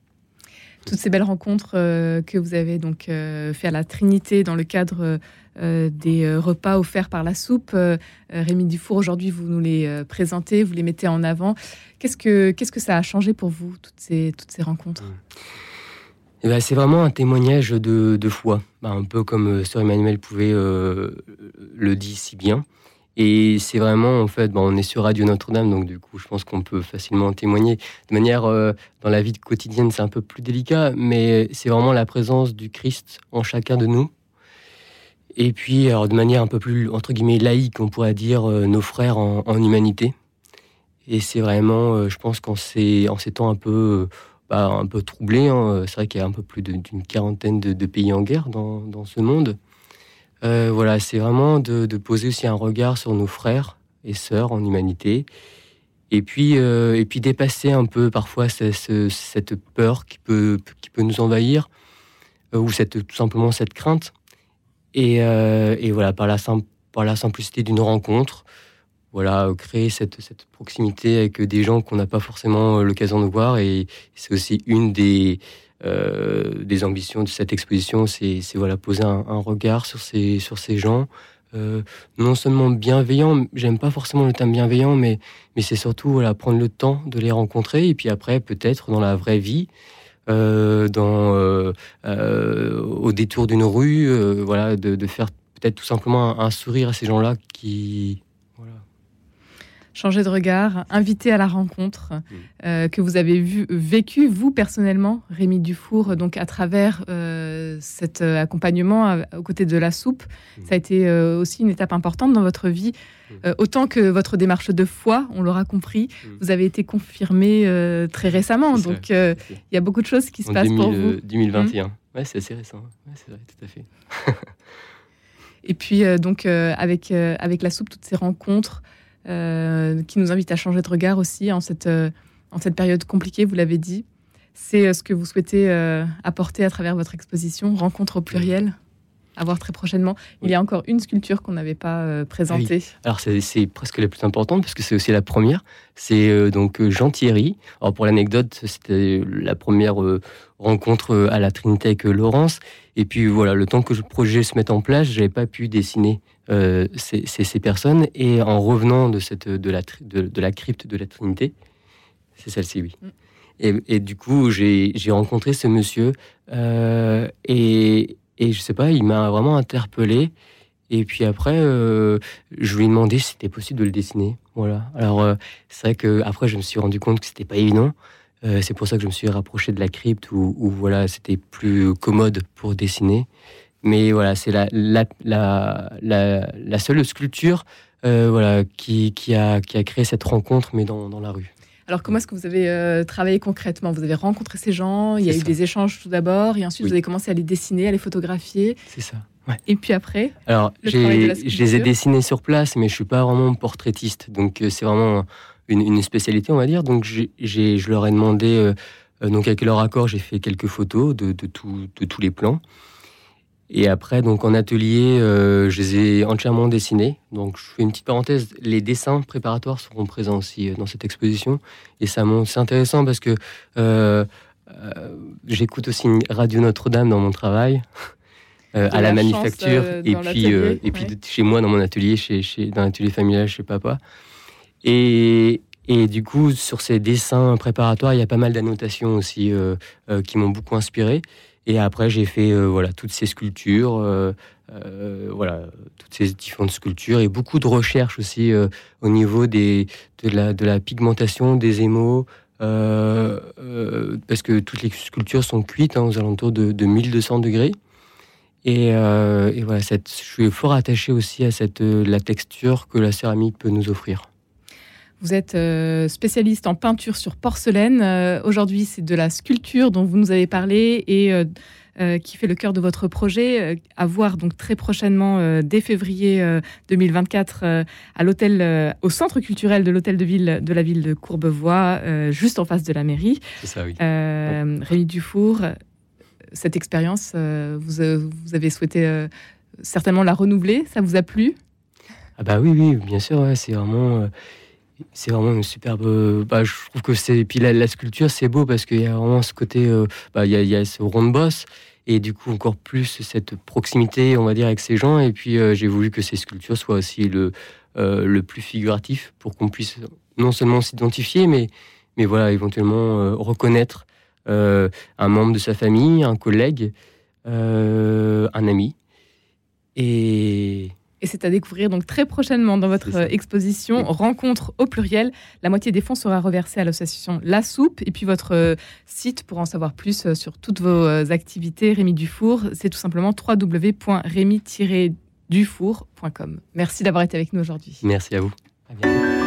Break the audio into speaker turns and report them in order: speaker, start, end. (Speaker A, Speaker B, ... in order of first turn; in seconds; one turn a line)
Speaker A: 0.8-15.1
Speaker B: 16.4-22.6
Speaker B: 23.1-34.1
Speaker B: 35.4-40.1
Speaker B: 41.0-49.6
Speaker B: 50.4-55.3
Speaker B: 56.1-61.7
Speaker B: 62.5-64.1
Speaker B: 64.9-68.5
Speaker B: 69.1-89.7
Speaker B: 90.3-98.8
Speaker A: 99.9-121.7
Speaker B: 118.7-119.6
Speaker B: 120.5-124.5
Speaker A: 125.6-134.0
Speaker A: 134.6-138.8
Speaker A: 139.3-142.9
Speaker B: 142.5-161.5
Speaker B: 162.4-162.9
Speaker B: 163.6-170.3
Speaker B: 170.9-183.3
Speaker B: 183.8-191.5
Speaker A: 191.9-198.8
Speaker B: 195.2-195.5
Speaker B: 198.9-199.6
Speaker A: 199.7-201.9
Speaker B: 200.4-212.6
Speaker B: 213.7-227.8
Speaker B: 228.7-234.0
Speaker A: 228.8-231.1
Speaker B: 234.8-257.7
Speaker B: 258.6-264.3
Speaker A: 265.2-271.4
Speaker A: 272.0-283.4
Speaker B: 283.6-284.6
Speaker A: 284.0-285.7
Speaker A: 286.5-289.3
Speaker A: 289.8-291.6
Speaker B: 292.4-294.3
Speaker B: 295.1-316.9
Speaker B: 317.4-318.9
Speaker B: 319.9-320.9
Speaker A: 321.2-338.0
Speaker B: 323.0-323.3
Speaker B: 338.0-339.2